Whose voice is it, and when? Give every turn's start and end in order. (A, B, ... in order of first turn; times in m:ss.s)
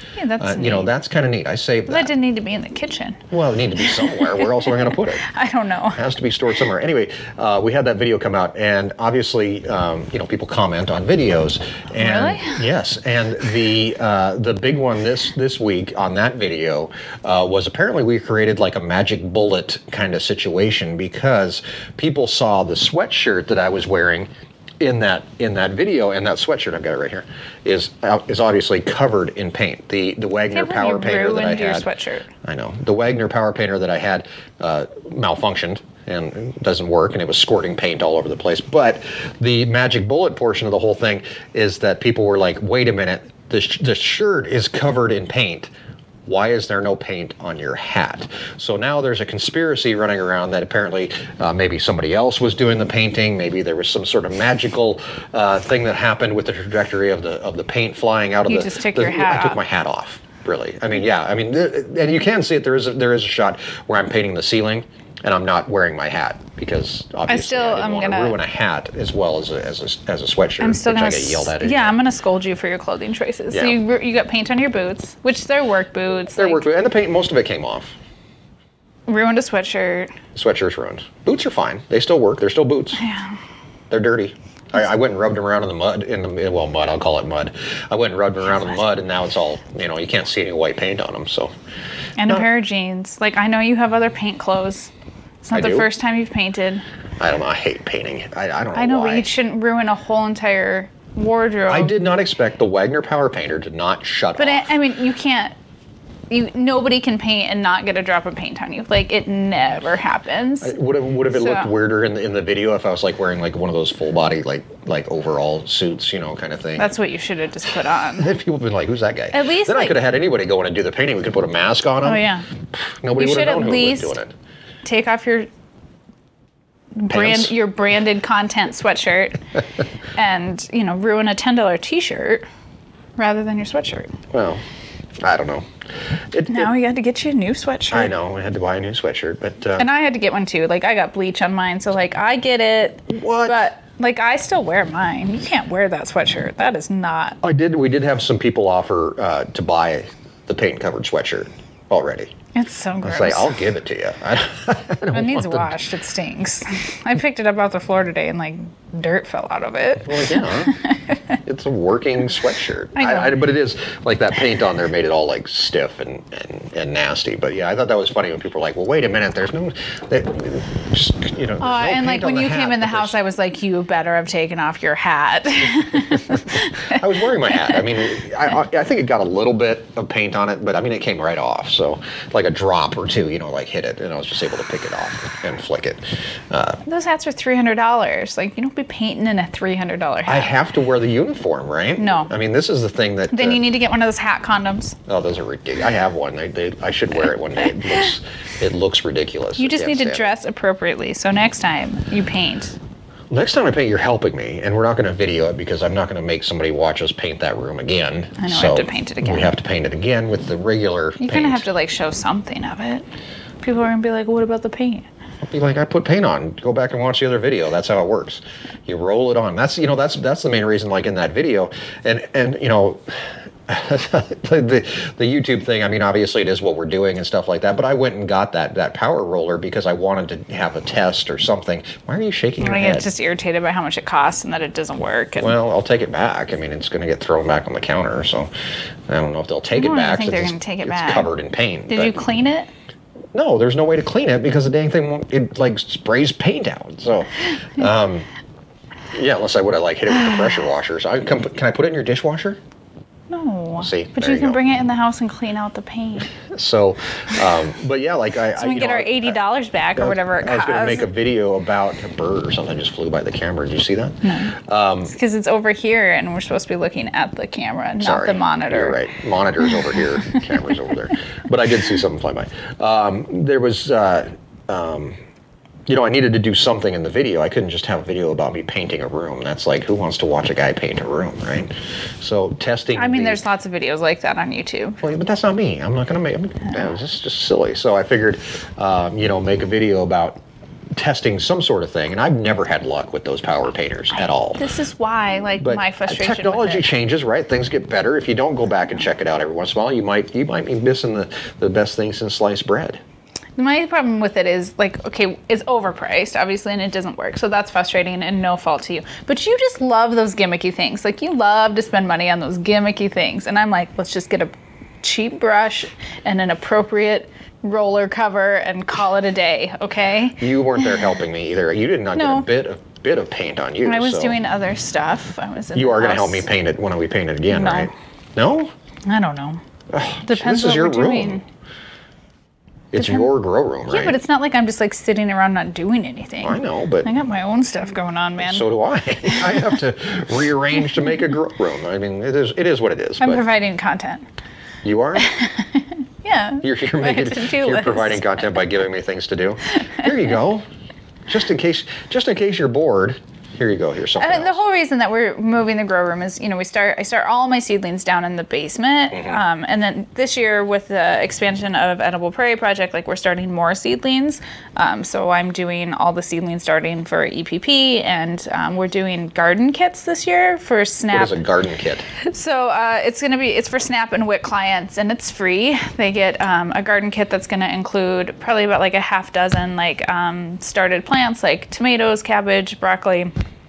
0:00.2-0:00.9 A
0:00.4-0:02.1 B
0:01.9-0:03.3 A
0:03.3-0:05.2 B
0:03.8-0:06.0 A
0:05.9-0:24.3 B
0:12.0-0:12.6 A
0:24.8-0:31.9 B
0:30.5-0:32.3 A
0:32.4-0:45.7 B
0:46.2-1:12.0 B
0:58.4-0:59.6 A
1:07.3-1:08.4 A
1:10.6-1:16.6 A
1:13.5-1:13.8 B
1:16.3-1:17.9 B
1:19.1-1:20.1 A
1:20.3-1:23.0 B
1:23.0-1:23.4 A
1:23.9-1:31.5 B
1:32.2-1:34.9 A
1:35.4-1:36.8 A
1:35.5-1:35.9 B
1:37.2-1:39.3 B
1:38.7-1:41.9 A
1:41.7-1:44.7 B
1:44.4-1:45.5 A
1:46.3-1:50.7 A
1:50.6-1:56.9 B
1:51.3-1:51.7 A
1:56.8-1:58.3 A
1:58.1-2:04.3 B
1:59.3-1:59.9 A
2:02.0-2:02.4 A
2:03.2-2:04.2 A
2:04.8-2:05.5 A
2:07.0-2:09.4 A
2:07.1-2:07.5 B
2:10.1-2:12.4 A
2:13.2-2:14.1 A
2:14.3-2:14.6 B
2:15.2-2:15.6 B
2:16.3-2:16.7 B
2:16.5-2:18.1 A
2:17.9-2:19.9 B
2:19.8-2:27.4 A
2:23.1-2:23.6 B
2:27.4-2:32.3 B
2:32.5-2:33.6 A
2:33.0-2:35.8 B
2:35.1-2:41.0 A
2:40.0-2:40.8 B
2:41.4-2:53.1 B
2:43.0-2:43.4 A
2:51.6-2:57.8 A
2:56.1-3:06.8 B
3:06.8-3:10.5 A
3:10.2-3:13.6 B
3:12.0-3:12.3 A
3:13.3-3:15.0 A
3:15.1-3:20.3 B
3:19.6-3:22.8 A
3:23.3-3:31.6 B
3:28.4-3:29.5 A
3:31.2-3:33.0 A
3:33.6-3:35.0 A
3:35.4-3:53.1 B
3:52.6-3:55.5 A
3:55.4-3:58.5 B
3:59.1-4:02.2 B
3:59.8-4:01.3 A
4:01.9-4:02.7 A
4:03.3-4:08.3 B
4:09.1-4:12.6 B
4:13.3-4:16.3 A
4:13.8-4:14.6 B
4:16.5-4:19.4 B
4:18.6-4:21.1 A
4:20.0-4:25.1 B
4:24.2-4:24.5 A
4:25.0-4:29.0 A
4:28.0-4:35.2 B
4:35.9-4:43.4 B
4:43.0-4:45.0 A
4:45.0-4:50.4 B
4:51.0-4:54.6 B
4:54.6-4:56.9 A
4:55.6-5:03.0 B
5:03.6-5:20.8 A
5:20.4-5:24.4 B
5:22.1-5:22.5 A
5:23.8-5:26.5 A
5:25.7-5:28.7 B
5:27.5-5:27.9 A
5:29.1-5:29.6 A
5:29.9-5:31.4 B
5:30.2-5:31.4 A
5:32.9-5:34.2 B
5:33.0-5:33.3 A
5:33.9-5:38.7 A
5:36.4-5:37.1 B
5:38.4-5:43.4 B
5:39.2-5:39.6 A
5:43.2-5:44.2 A
5:44.8-5:45.3 B
5:45.2-5:48.4 A
5:46.6-5:50.6 B
5:51.3-5:54.6 B
5:54.2-6:11.4 A
5:59.1-5:59.4 B
6:11.1-6:12.0 B
6:12.2-6:23.3 A